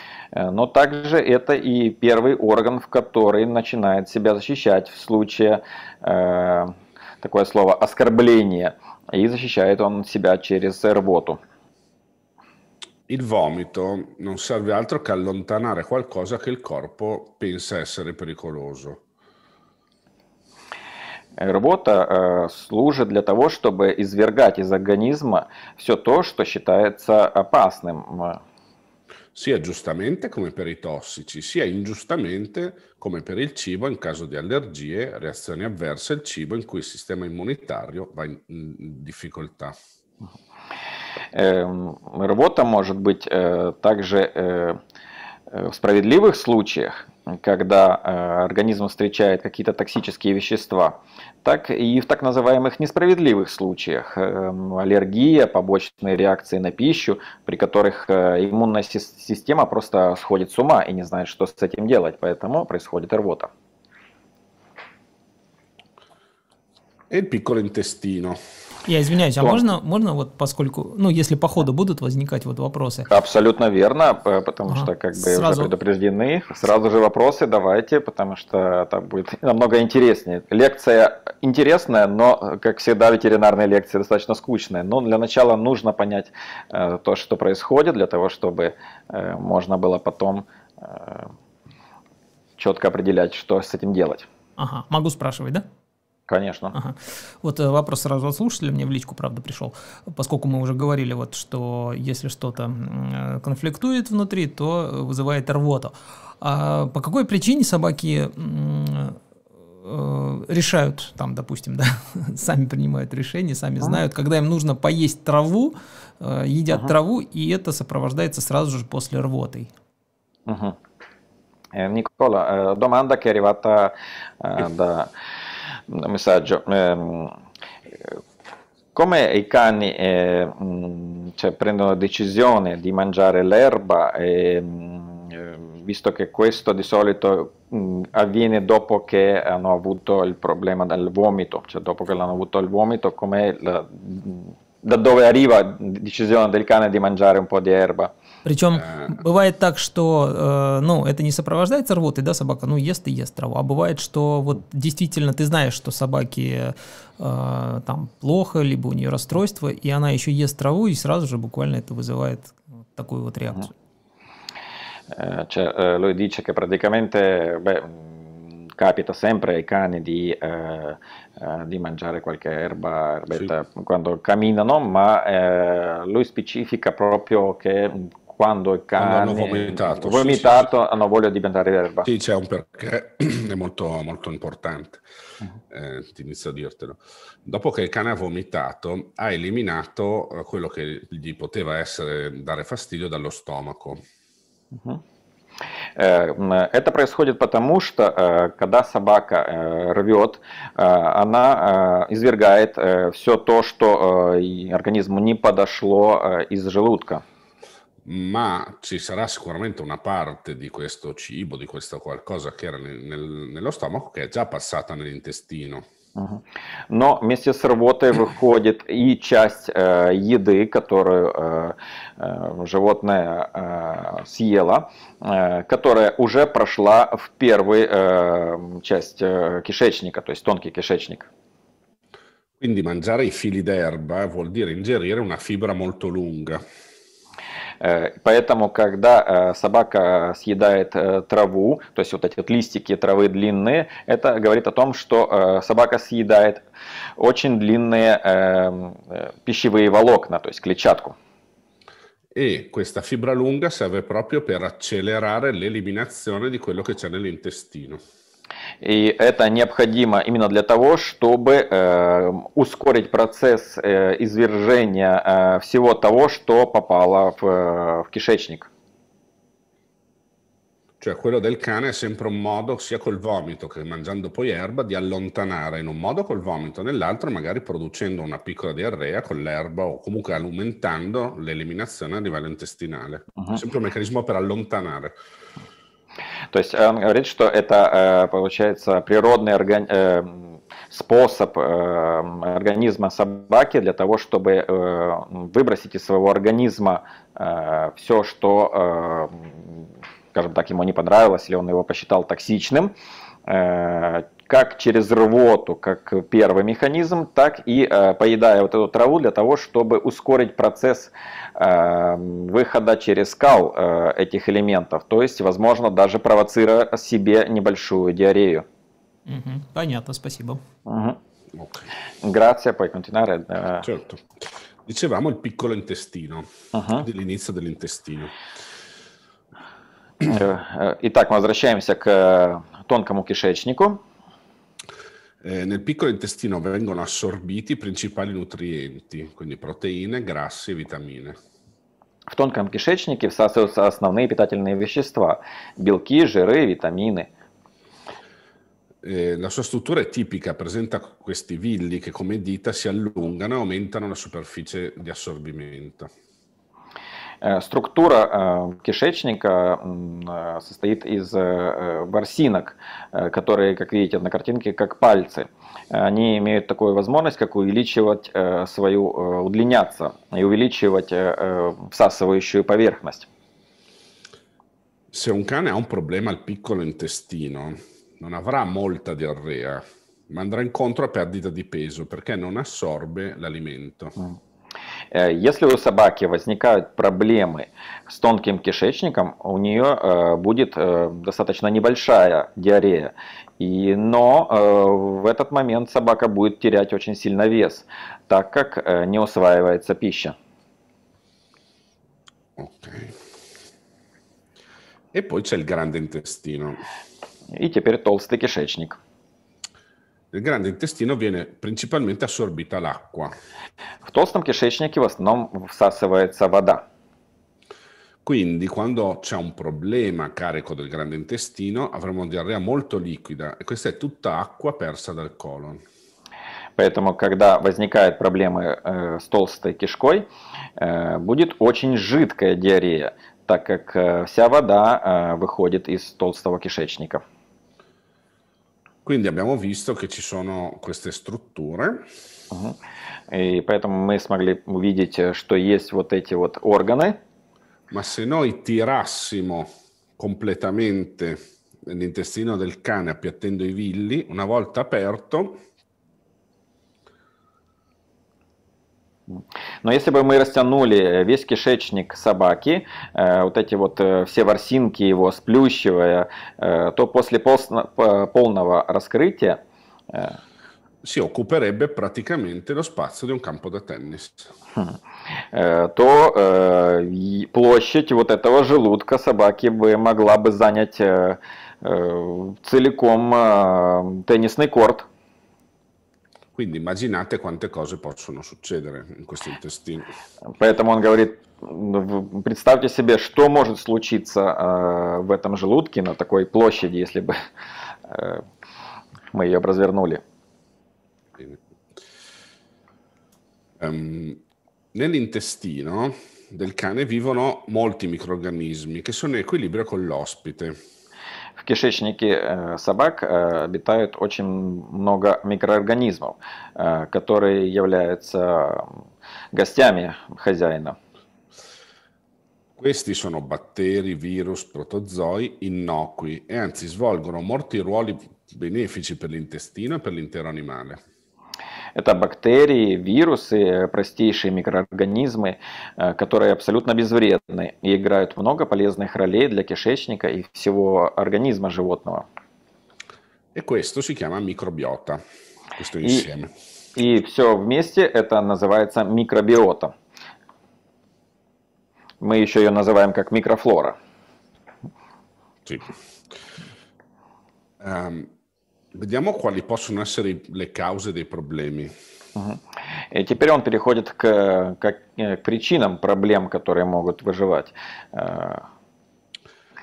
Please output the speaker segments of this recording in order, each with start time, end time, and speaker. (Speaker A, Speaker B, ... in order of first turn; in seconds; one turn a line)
Speaker A: 0.3-11.4
Speaker B: 13.1-19.0
Speaker A: 21.4-28.4
Speaker B: 29.4-39.8
Speaker A: 41.3-44.8
Speaker A: 45.5-63.5
Speaker B: 67.1-68.4
Speaker C: 68.8-73.1
Speaker A: 73.1-91.3
Speaker C: 74.7-75.7
Speaker A: 92.6-94.3
Speaker C: 94.6-95.7
Speaker A: 96.3-96.8
Speaker C: 96.7-109.2
Speaker C: 109.8-119.7
Speaker A: 120.5-120.8
Speaker A: 121.7-125.1
Speaker A: 125.9-127.4
Speaker A: 128.9-148.1
Speaker C: 148.4-163.7
Speaker A: 165.1-182.1
Speaker B: 179.0-180.7
Speaker B: 182.1-185.0
Speaker B: 185.7-194.0
Speaker A: 194.7-195.0
Speaker A: 196.0-207.2
Speaker B: 208.0-215.8
Speaker A: 216.2-231.3
Speaker B: 232.6-236.6
Speaker A: 237.8-246.6
Speaker A: 247.2-251.2
Speaker B: 252.3-258.0
Speaker A: 258.8-268.7
Speaker B: 271.0-285.1
Speaker A: 286.5-302.9
Speaker A: 303.5-318.6
Speaker C: 319.3-320.6
Speaker A: 320.9-321.2
Speaker B: 321.5-321.9
Speaker A: 322.2-323.9
Speaker B: 323.8-328.3
Speaker A: 326.7-327.1
Speaker A: 330.2-334.0
Speaker B: 335.4-341.4
Speaker A: 342.3-347.3
Speaker B: 349.0-356.1
Speaker A: 357.4-373.3
Speaker B: 375.1-384.1
Speaker A: 385.1-400.4
Speaker B: 402.6-403.2
Speaker B: 405.1-406.8
Speaker A: 407.5-409.0
Speaker B: 410.3-413.3
Speaker A: 414.1-416.9
Speaker B: 418.2-425.8
Speaker A: 426.8-437.2
Speaker B: 439.1-442.0
Speaker A: 442.5-442.8
Speaker A: 443.3-447.2
Speaker B: 447.9-455.6
Speaker A: 459.8-469.6
Speaker A: 470.1-470.4
Speaker B: 471.0-474.5
Speaker A: 475.5-485.1
Speaker B: 486.6-490.1
Speaker A: 490.6-497.4
Speaker A: 498.1-498.4
Speaker A: 499.3-500.2
Speaker B: 503.8-504.4
Speaker B: 504.9-510.8
Speaker A: 511.6-519.0
Speaker A: 519.5-521.0
Speaker B: 522.8-531.0
Speaker A: 532.0-542.3
Speaker B: 543.5-545.2
Speaker B: 545.8-546.5
Speaker A: 547.0-549.9
Speaker A: 552.2-554.0
Speaker B: 557.8-558.3
Speaker B: 558.9-561.9
Speaker A: 562.4-568.7